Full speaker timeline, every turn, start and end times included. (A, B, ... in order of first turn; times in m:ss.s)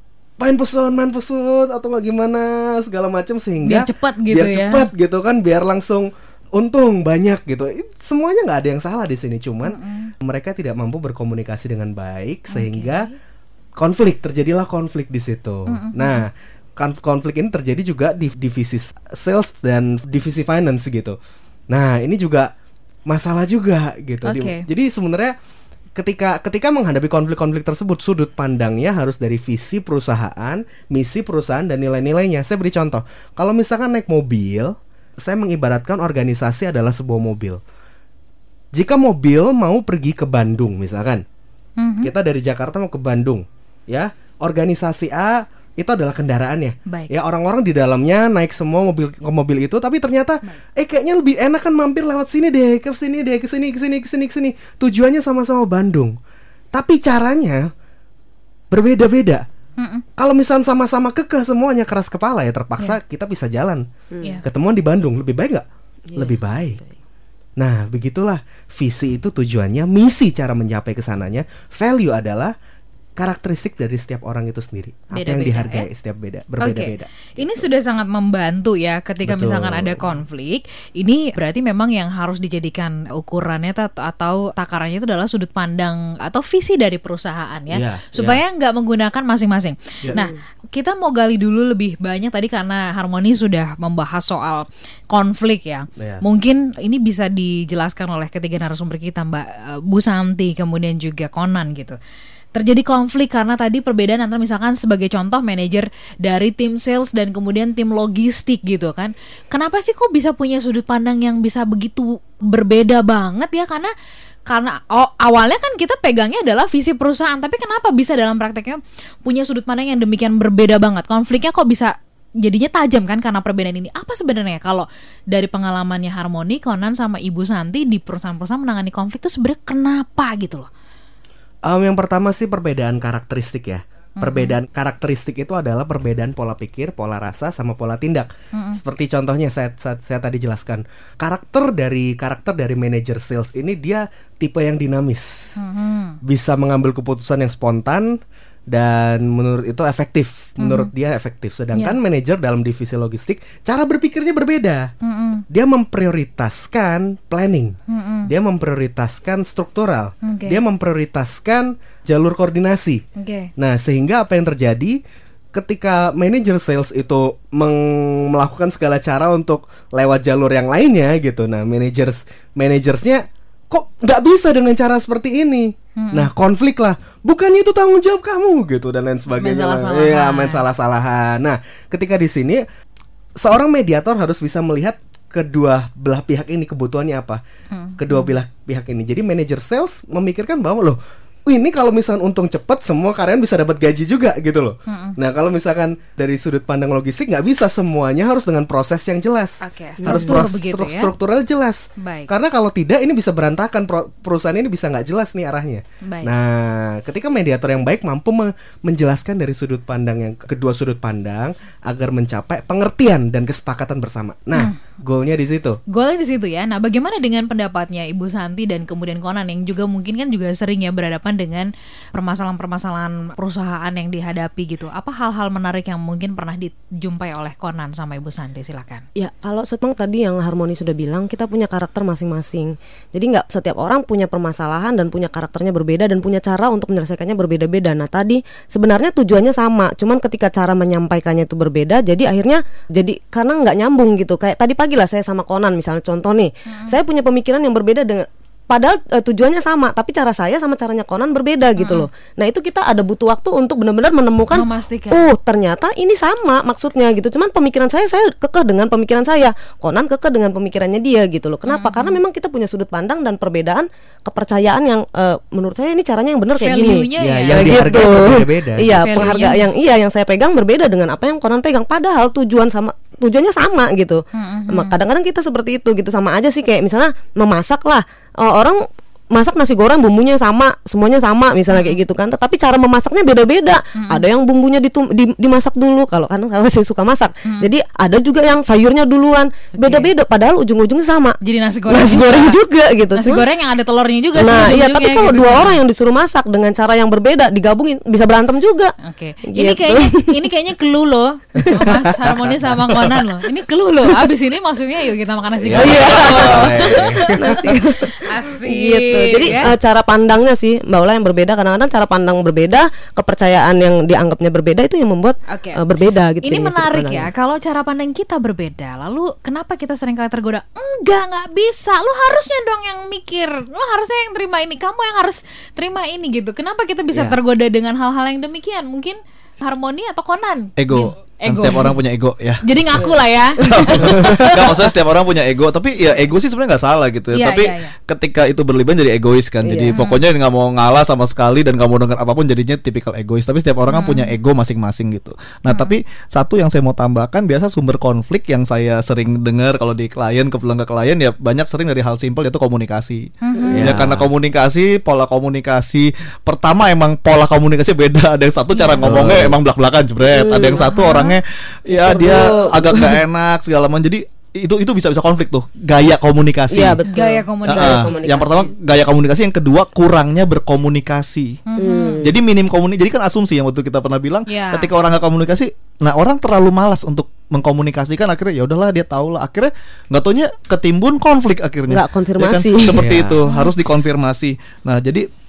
0:00.4-0:13.1 A
0:03.6-0:04.9 B
0:09.6-0:10.1 B
0:12.5-0:13.1 B
0:13.8-0:21.2 A
0:15.7-0:16.2 B
0:21.7-0:22.5 A
0:23.0-0:25.3 A
0:24.2-0:24.6 B
0:26.0-0:37.6 A
0:38.7-0:41.2 A
0:41.8-0:42.1 B
0:42.0-0:56.2 A
0:46.9-0:47.1 B
0:56.7-0:57.7 A
0:58.7-0:59.4 A
0:59.8-1:00.0 B
1:00.2-1:03.9 A
1:04.1-1:04.4 C
1:04.4-1:06.8 A
1:06.1-1:06.9 C
1:07.6-1:12.5 A
1:13.2-1:17.6 A
1:15.1-1:15.9 B
1:16.6-1:42.0 B
1:19.2-1:20.1 A
1:27.7-1:28.4 A
1:36.0-1:36.2 A
1:42.5-1:53.9 B
1:54.5-2:10.7 B
2:11.6-2:25.6 A
2:14.2-2:14.5 B
2:18.5-2:18.8 B
2:25.6-2:26.2 B
2:26.2-2:34.9 A
2:30.6-2:30.9 B
2:35.0-2:35.4 B
2:35.5-2:43.0 A
2:37.9-2:38.3 B
2:40.2-2:40.6 B
2:43.2-2:43.5 B
2:43.6-2:45.0 A
2:45.5-3:02.6 A
2:56.0-2:56.3 B
2:59.4-3:00.6 B
3:03.4-3:07.4 A
3:07.7-3:08.4 B
3:08.0-3:35.8 A
3:14.9-3:15.2 B
3:19.6-3:21.1 B
3:20.0-3:20.4 C
3:22.0-3:22.3 B
3:26.0-3:26.3 B
3:35.9-3:49.0 B
3:49.2-4:53.4 C
4:06.7-4:07.0 B
4:11.8-4:12.1 B
4:14.5-4:15.3 B
4:21.7-4:22.2 B
4:26.6-4:28.0 B
4:27.2-4:29.4 A
4:28.8-4:29.7 B
4:34.3-4:34.9 B
4:41.7-4:42.0 B
4:43.9-4:44.2 B
4:47.4-4:47.7 B
4:49.7-4:50.1 B
4:51.4-4:52.6 B
4:53.1-4:55.8 B
4:54.3-5:00.4 C
4:59.0-5:09.7 B
5:01.6-5:02.0 A
5:05.6-5:07.8 A
5:05.7-5:17.3 C
5:15.5-5:15.8 B
5:16.4-5:32.0 B
5:30.8-6:07.0 D
5:32.6-5:34.8 B
5:33.6-5:34.5 C
5:37.3-5:37.9 B
5:39.6-5:39.9 C
5:39.9-5:40.2 B
5:43.9-5:44.3 B
5:45.7-5:46.0 B
5:53.4-5:53.8 B
5:53.5-5:53.9 C
5:53.7-5:54.3 A
5:58.7-5:59.1 B
5:59.0-5:59.6 A
6:00.3-6:01.1 C
6:00.8-6:01.4 B
6:01.9-6:03.2 C
6:06.7-6:08.7 C
6:07.0-6:08.5 B
6:07.7-6:11.6 D
6:11.7-6:12.2 B
6:11.8-6:12.4 C
6:12.2-6:25.3 D
6:14.5-6:14.9 B
6:21.9-6:23.1 C
6:22.9-6:23.4 A
6:23.4-6:23.7 B